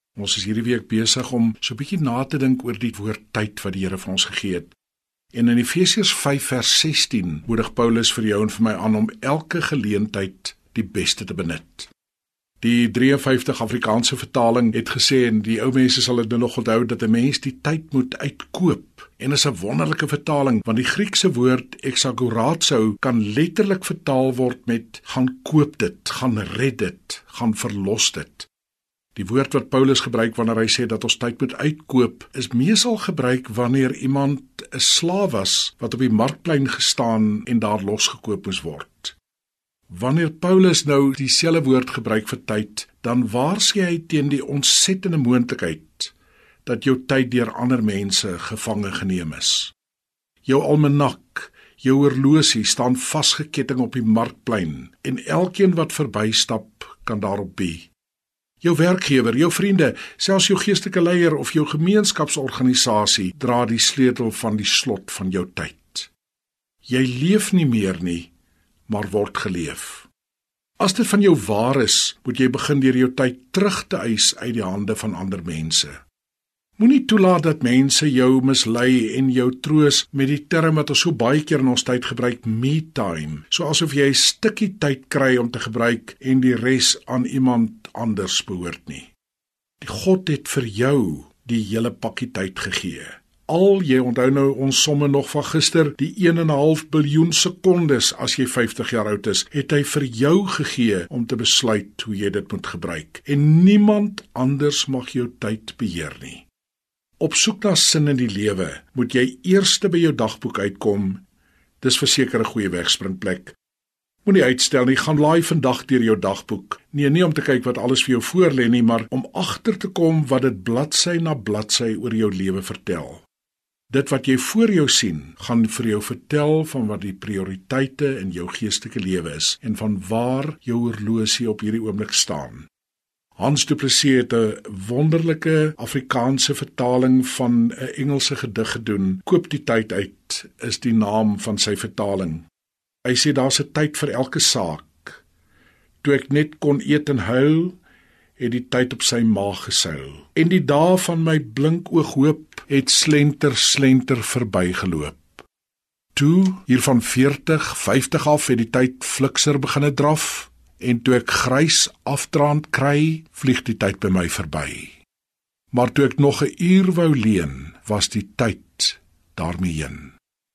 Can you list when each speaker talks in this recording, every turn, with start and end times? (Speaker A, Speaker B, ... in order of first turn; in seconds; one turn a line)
Speaker A: 0.2-4.7
Speaker A: 5.3-11.9
Speaker A: 12.6-28.5
Speaker A: 29.2-39.2
Speaker A: 39.9-46.1
Speaker A: 46.6-49.7
Speaker A: 50.5-57.9
Speaker A: 58.6-66.1
Speaker A: 66.8-68.3
Speaker A: 68.9-70.1
Speaker A: 70.8-76.0
Speaker A: 76.8-89.1
Speaker A: 89.8-106.5
Speaker A: 107.2-111.2
Speaker A: 111.8-113.6
Speaker A: 114.2-123.2
Speaker A: 123.9-132.7
Speaker A: 133.4-142.4
Speaker A: 143.0-145.2
Speaker A: 146.0-147.8
Speaker A: 148.4-155.4
Speaker A: 156.2-164.9
Speaker A: 165.7-170.1